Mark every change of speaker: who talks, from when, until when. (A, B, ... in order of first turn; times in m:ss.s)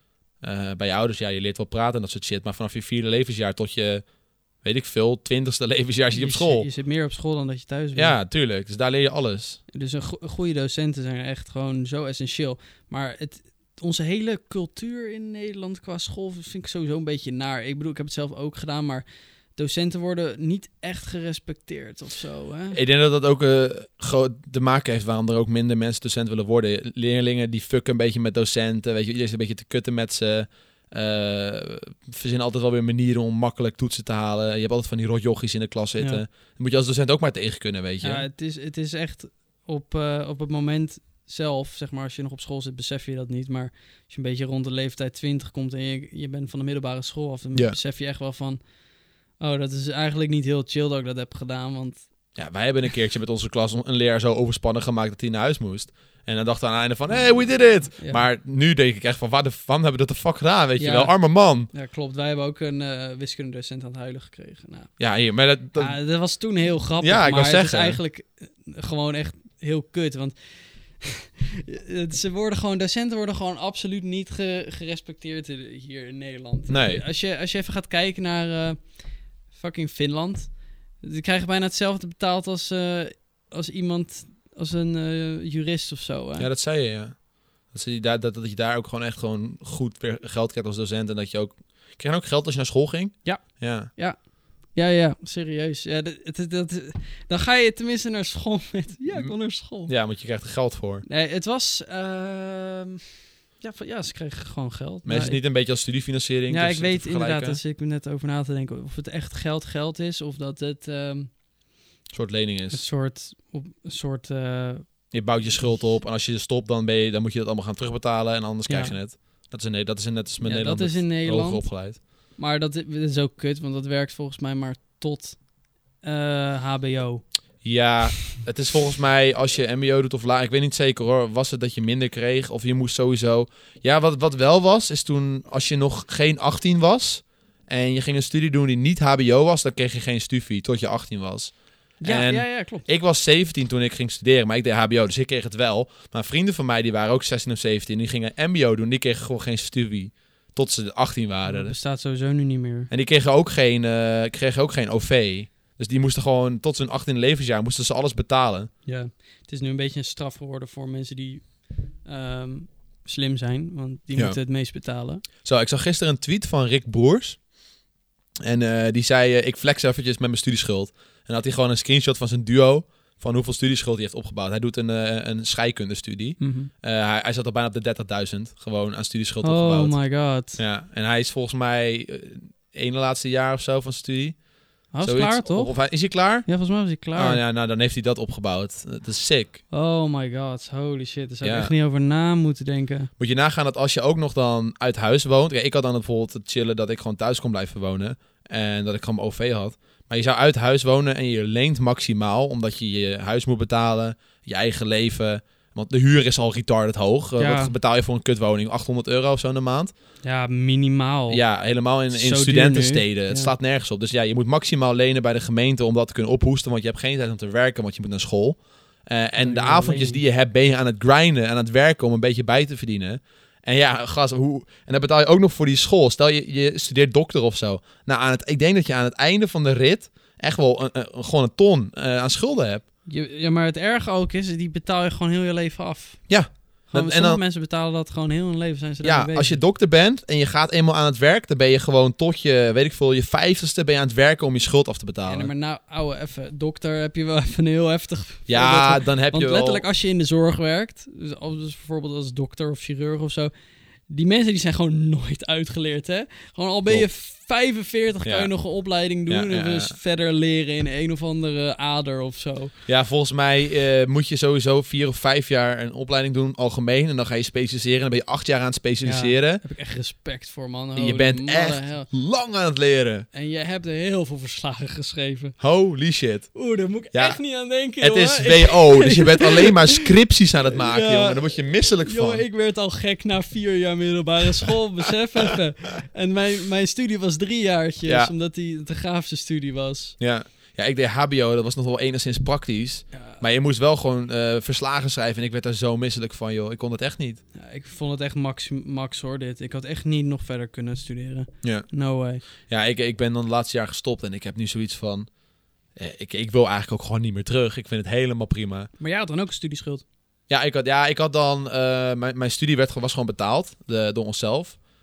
0:00.4-0:04.0 A
0:04.6-0:06.7 A
0:06.1-0:08.2 B
0:08.0-0:09.6 A
0:09.7-0:22.8 B
0:22.7-0:38.3 A
0:38.0-0:48.6 B
0:49.4-0:52.1 B
0:52.4-1:01.7 A
0:58.0-0:58.2 B
1:00.8-1:01.2 B
1:01.7-1:05.0 B
1:05.0-1:06.0 A
1:05.8-1:18.9 B
1:07.0-1:08.0 A
1:16.7-1:17.0 A
1:19.5-1:26.5 B
1:26.4-1:33.9 A
1:33.2-1:34.2 B
1:34.7-1:39.9 B
1:39.9-1:41.1 A
1:41.1-1:45.4 B
1:45.0-1:47.6 A
1:46.5-1:51.3 B
1:52.1-1:52.8 A
1:52.7-1:54.9 B
1:55.1-2:02.0 A
1:58.7-1:59.0 B
2:00.4-2:01.7 B
2:02.3-2:05.4 B
2:06.0-2:07.2 B
2:07.6-2:31.8 A
2:22.0-2:22.9 B
2:31.5-2:32.9 B
2:32.9-2:38.7 A
2:38.9-2:45.2 B
2:45.4-2:47.4 A
2:48.4-3:00.0 A
2:56.4-2:56.7 B
2:59.4-3:00.6 B
3:00.6-3:04.4 A
3:04.9-3:05.8 B
3:05.0-3:06.5 A
3:06.3-3:07.4 B
3:07.2-3:09.6 A
3:09.7-3:13.1 B
3:11.4-3:11.7 A
3:13.2-3:29.9 A
3:27.4-3:27.7 B
3:30.2-3:31.4 B
3:31.3-3:52.8 A
3:32.1-3:33.5 B
3:39.4-3:40.2 B
3:53.1-3:56.3 B
3:56.3-3:57.4 A
3:56.9-3:59.6 B
3:59.0-4:05.5 A
4:05.3-4:13.5 B
4:08.5-4:09.8 A
4:14.1-4:22.7 B
4:18.2-4:18.5 A
4:19.3-4:20.0 A
4:22.9-4:29.6 A
4:29.0-4:32.1 B
4:31.0-4:33.3 A
4:33.3-4:35.6 B
4:35.6-4:36.6 A
4:36.5-4:40.1 B
4:37.1-4:37.4 A
4:38.0-4:42.4 A
4:40.6-4:50.2 B
4:48.0-4:48.3 A
4:50.2-4:57.4 A
4:53.1-4:53.4 B
4:57.6-5:02.4 B
5:02.7-5:05.3 A
5:06.0-5:08.9 A
5:09.0-5:10.0 B
5:10.5-5:14.8 A